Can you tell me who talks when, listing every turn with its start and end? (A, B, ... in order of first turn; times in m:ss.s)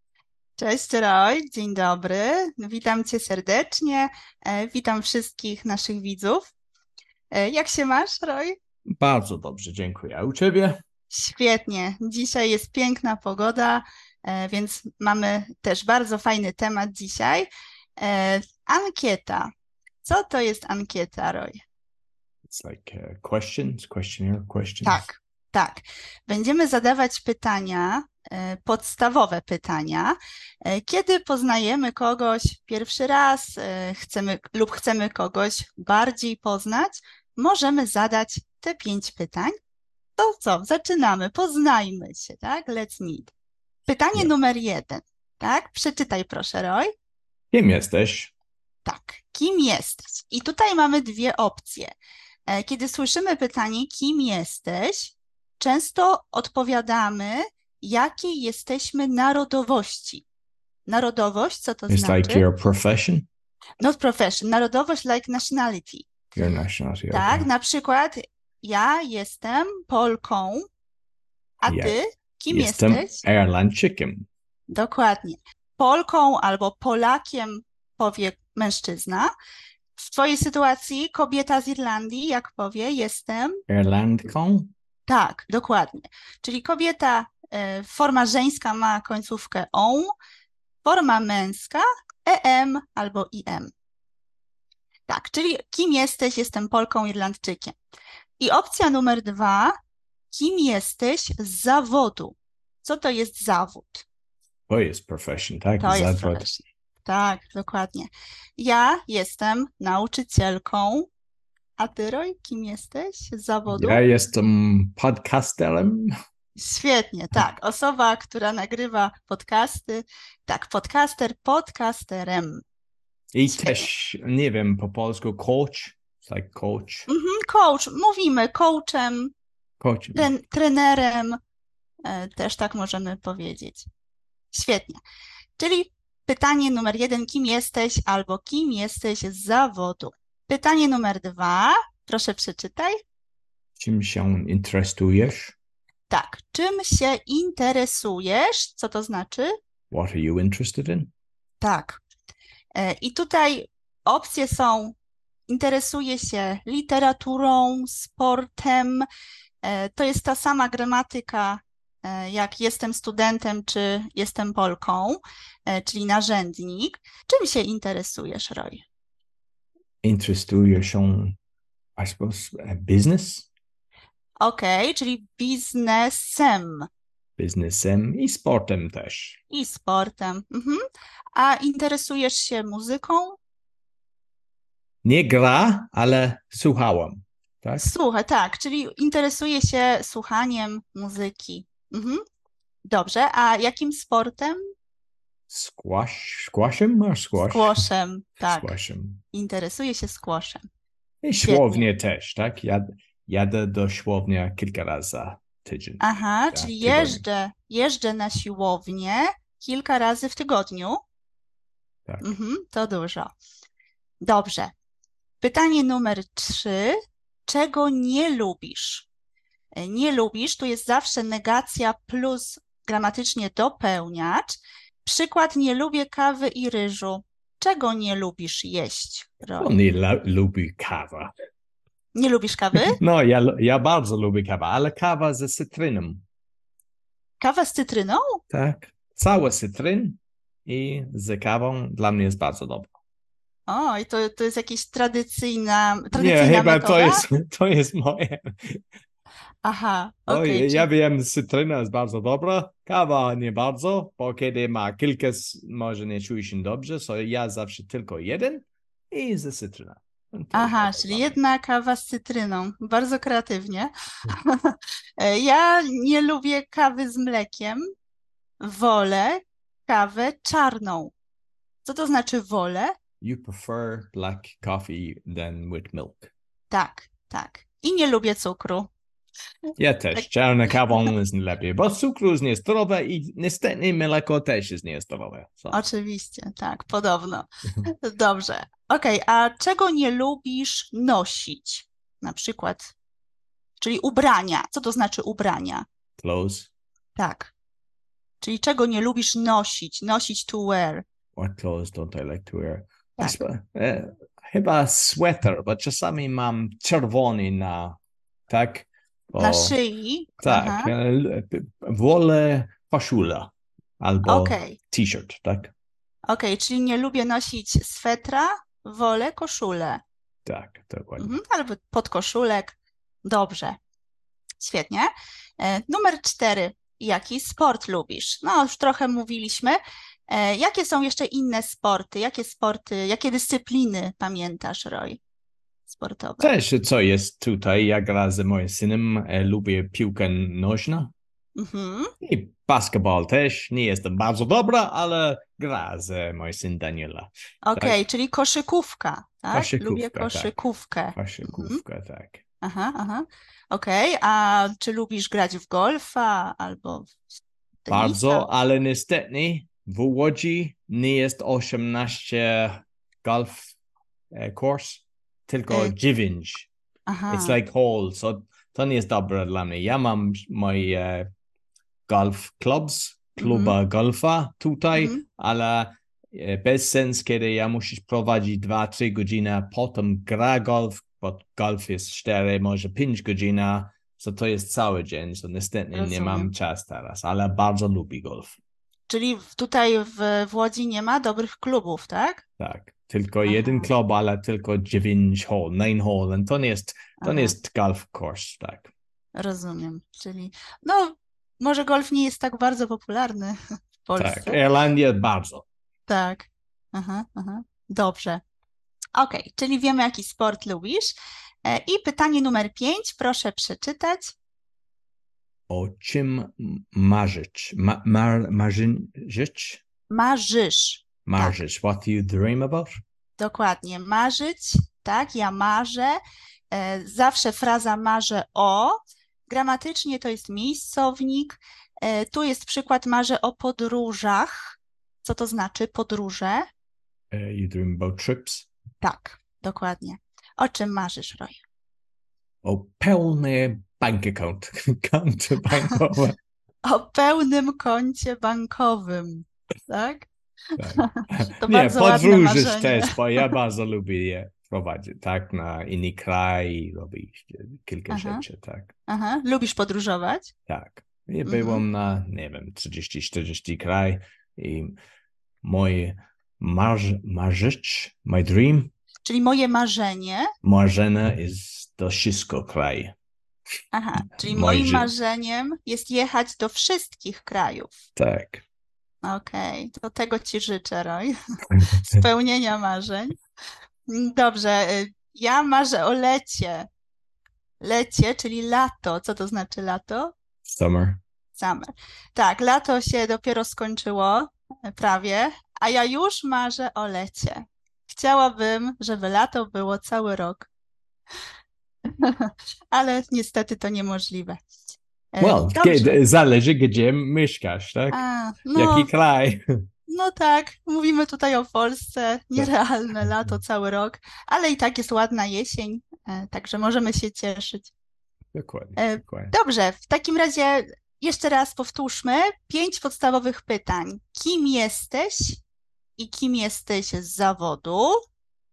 0:00.6-0:06.5 A
0:07.3-0:08.6 A
0:08.9-0:10.8 B
0:11.1-0:19.5 A
0:20.0-0:21.6 A
0:22.5-0:25.1 B
0:24.8-0:39.5 A
0:40.2-0:43.3 A
0:43.9-0:46.9 A
0:47.5-0:48.3 B
0:48.8-0:52.0 A
0:52.5-1:00.2 A
1:00.8-1:02.4 A
1:01.9-1:03.3 B
1:03.8-1:06.1 A
1:06.3-1:07.5 B
1:07.1-1:10.6 A
1:11.6-1:13.2 A
1:11.7-1:12.0 B
1:12.5-1:14.2 B
1:14.7-1:19.3 A
1:20.0-1:23.6 A
1:23.7-1:24.7 B
1:25.1-1:30.1 A
1:30.8-1:33.7 A
1:35.1-1:37.8 A
1:38.4-1:39.7 A
1:40.3-1:44.0 A
1:44.7-1:46.5 B
1:45.8-1:51.1 A
1:51.8-1:54.0 A
1:53.7-1:56.1 B
1:56.6-2:02.6 A
2:03.3-2:07.1 B
2:03.5-2:03.9 A
2:07.1-2:09.3 A
2:09.8-2:10.3 B
2:10.1-2:11.4 A
2:12.0-2:13.8 A
2:14.5-2:15.0 A
2:15.6-2:23.0 A
2:23.8-2:25.6 B
2:26.1-2:29.5 A
2:29.9-2:31.1 B
2:31.6-2:32.0 A
2:32.7-2:35.0 A
2:35.5-2:39.0 A
2:39.6-2:48.8 A
2:50.0-2:51.4 B
2:52.0-2:53.5 B
2:54.4-2:56.9 A
2:57.4-2:59.4 B
2:59.5-3:00.8 A
3:01.3-3:03.4 A
3:05.0-3:07.9 B
3:07.8-3:12.2 A
3:12.8-3:14.6 A
3:15.5-3:17.8 B
3:17.4-3:18.7 A
3:18.5-3:19.2 B
3:19.3-3:20.6 A
3:21.2-3:27.2 B
3:21.4-3:21.8 A
3:26.0-3:31.0 A
3:32.1-3:32.3 B
3:32.2-3:33.3 A
3:34.2-3:34.7 A
3:35.4-3:39.1 A
3:39.8-3:49.7 A
3:49.6-3:51.3 B
3:52.1-3:53.0 A
3:52.8-3:56.2 B
3:57.4-3:58.4 A
3:58.5-4:02.9 B
4:03.7-4:07.2 A
4:06.1-4:08.8 B
4:09.6-4:10.9 A
4:10.3-4:21.4 B
4:20.5-4:27.8 A
4:28.6-4:31.1 A
4:31.8-4:32.9 A
4:33.2-4:36.3 B
4:36.7-4:38.9 A
4:39.8-4:45.8 B
4:45.7-4:52.9 A
4:53.8-4:55.8 A
4:56.2-4:56.7 B
4:57.2-4:57.5 A
4:58.4-5:01.0 A
5:01.4-5:08.0 B
5:08.5-5:09.7 B
5:09.4-5:10.9 A
5:10.4-5:15.7 B
5:14.2-5:14.8 A
5:16.3-5:20.0 A
5:20.4-5:21.3 B
5:21.2-5:23.8 A
5:24.6-5:35.2 A
5:35.9-5:36.5 A
5:36.4-5:41.1 B
5:41.6-5:42.1 A
5:42.2-5:48.0 B
5:47.6-5:51.8 A
5:49.5-5:50.5 B
5:51.1-5:52.4 B
5:52.6-5:57.2 A
5:57.8-5:58.4 A
5:57.9-6:03.7 B
6:04.3-6:06.7 B
6:07.1-6:07.6 A
6:07.3-6:11.3 B
6:12.1-6:28.6 B
6:13.4-6:13.7 A
6:14.9-6:15.2 A
6:25.9-6:26.5 A
6:29.1-6:32.4 A
6:32.6-6:38.9 B
6:33.4-6:33.9 A
6:37.2-6:37.5 A
6:39.3-6:44.6 A
6:44.2-6:45.6 B
6:46.1-6:48.4 A
6:49.2-6:54.3 A
6:55.7-6:59.8 B
7:00.1-7:01.6 A
7:01.2-7:03.0 B
7:03.4-7:06.2 A
7:06.7-7:09.0 A
7:09.5-7:16.6 A
7:17.3-7:18.7 B
7:19.0-7:21.6 A
7:22.6-7:26.4 B
7:26.8-7:33.2 A
7:30.8-7:38.9 B
7:38.1-7:38.4 A
7:39.1-7:40.5 A
7:40.7-7:45.0 B
7:41.4-7:41.8 A
7:45.6-7:48.9 B
7:49.2-7:50.5 A
7:50.6-7:53.1 B
7:53.9-7:57.9 A
7:54.4-7:55.1 B
7:58.2-7:58.6 B
7:59.2-8:01.3 A
8:02.1-8:03.4 A
8:04.1-8:06.9 A
8:07.8-8:10.3 A
8:10.6-8:11.2 B
8:11.6-8:20.7 A
8:22.0-8:24.6 A
8:25.3-8:26.2 A
8:25.4-8:28.2 B
8:28.1-8:29.1 A
8:28.7-8:29.6 B
8:30.1-8:37.9 A
8:38.5-8:39.5 B
8:39.0-8:45.6 A
8:46.2-8:48.2 A